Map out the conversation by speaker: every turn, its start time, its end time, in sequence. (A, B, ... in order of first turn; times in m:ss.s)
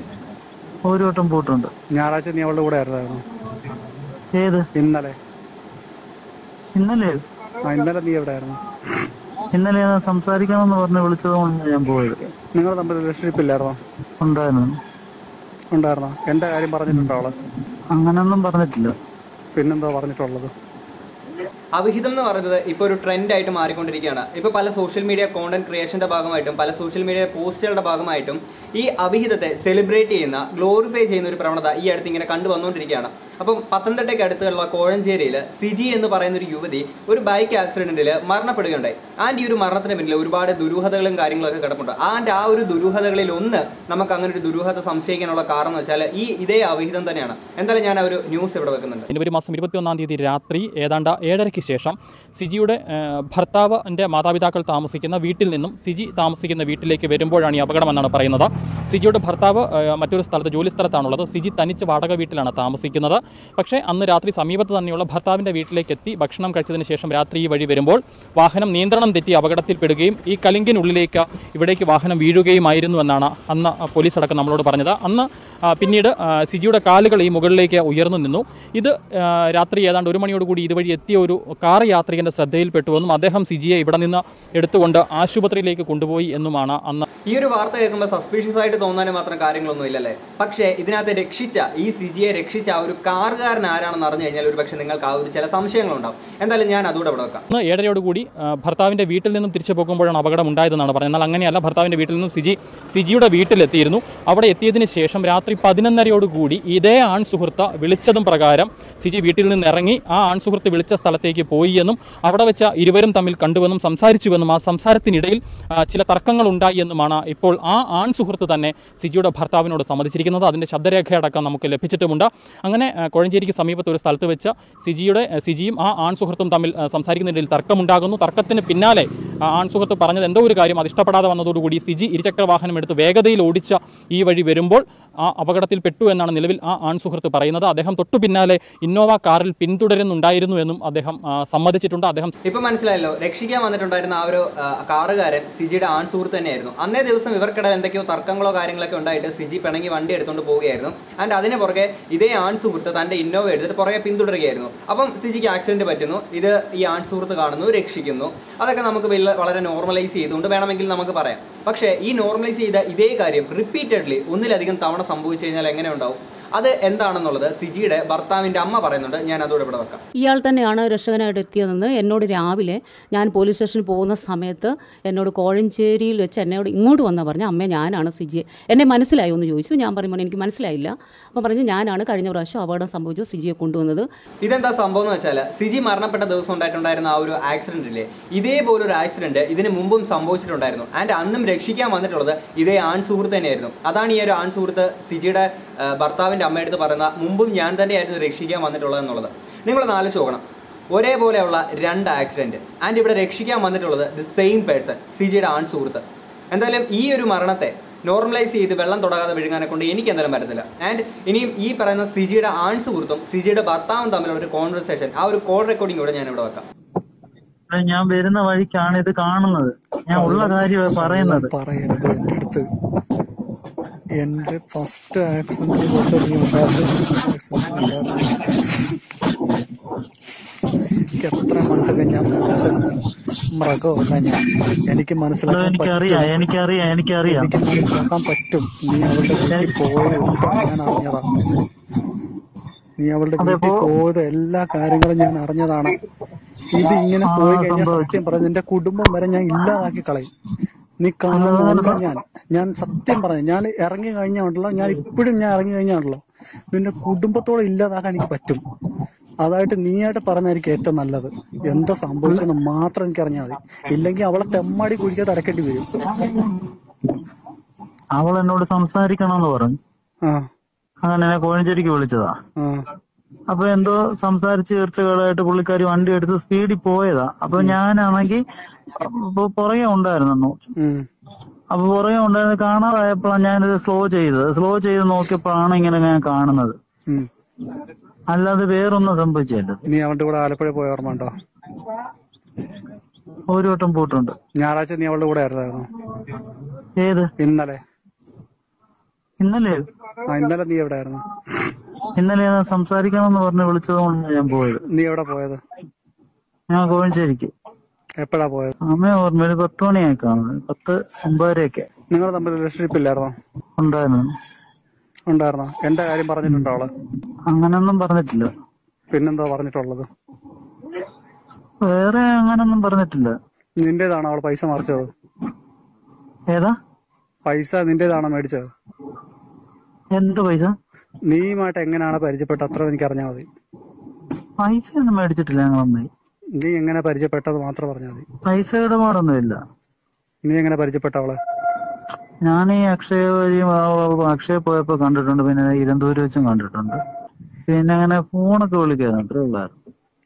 0:00.9-0:01.7 A
0:01.9-0:03.2 B
0:04.4-0:04.6 A
0:04.8-0:05.1 B
0:06.8-0:07.2 A
0:07.6-0:08.6 B
0:09.5-0:12.3 A
0:12.5-0:13.8 B
0:14.2-0:14.8 A
0:15.7-0:17.3 B
0:16.9-0:17.2 A
0:17.9-0:18.9 A
0:19.6-0:20.5 B
0:21.7-0:49.1 C
0:49.1-1:27.0 D
1:27.3-1:37.4 C
1:37.5-2:22.3 D
2:22.5-2:50.0 C
2:50.2-3:04.1 E
3:04.4-3:36.7 C
3:37.7-3:41.5 A
3:40.1-3:42.6 B
3:44.2-3:48.8 B
3:51.2-3:52.9 B
3:53.5-3:56.3 B
3:55.5-3:57.6 A
3:57.2-4:01.2 B
4:03.0-4:05.9 B
4:03.4-4:03.9 A
4:06.7-4:10.3 B
4:07.2-4:08.2 A
4:11.0-4:18.6 B
4:11.3-4:12.0 A
4:19.4-4:25.8 B
4:28.1-4:29.8 A
4:31.0-4:32.4 A
4:33.5-4:38.4 A
4:38.9-4:40.6 A
4:40.8-4:41.0 B
4:41.7-4:46.8 A
4:48.3-4:49.8 A
4:49.9-4:51.3 B
4:53.5-4:54.3 A
4:54.6-4:55.9 B
4:57.0-4:57.3 A
4:57.4-4:57.8 B
4:59.4-4:59.8 A
5:00.2-5:01.2 B
5:02.2-5:04.8 A
5:04.9-5:05.6 B
5:06.7-5:07.5 A
5:08.2-5:08.8 B
5:08.9-5:11.9 A
5:12.1-5:13.3 B
5:13.8-5:14.3 A
5:15.3-5:16.9 B
5:17.5-5:18.5 A
5:19.1-5:20.1 B
5:21.8-5:23.3 A
5:23.8-5:25.1 B
5:27.4-5:28.7 B
5:30.1-5:30.7 A
5:31.3-5:33.4 B
5:34.6-5:36.1 A
5:36.6-5:38.2 B
5:38.4-5:39.6 A
5:40.4-5:41.4 B
5:42.4-5:47.0 A
5:47.7-5:49.7 A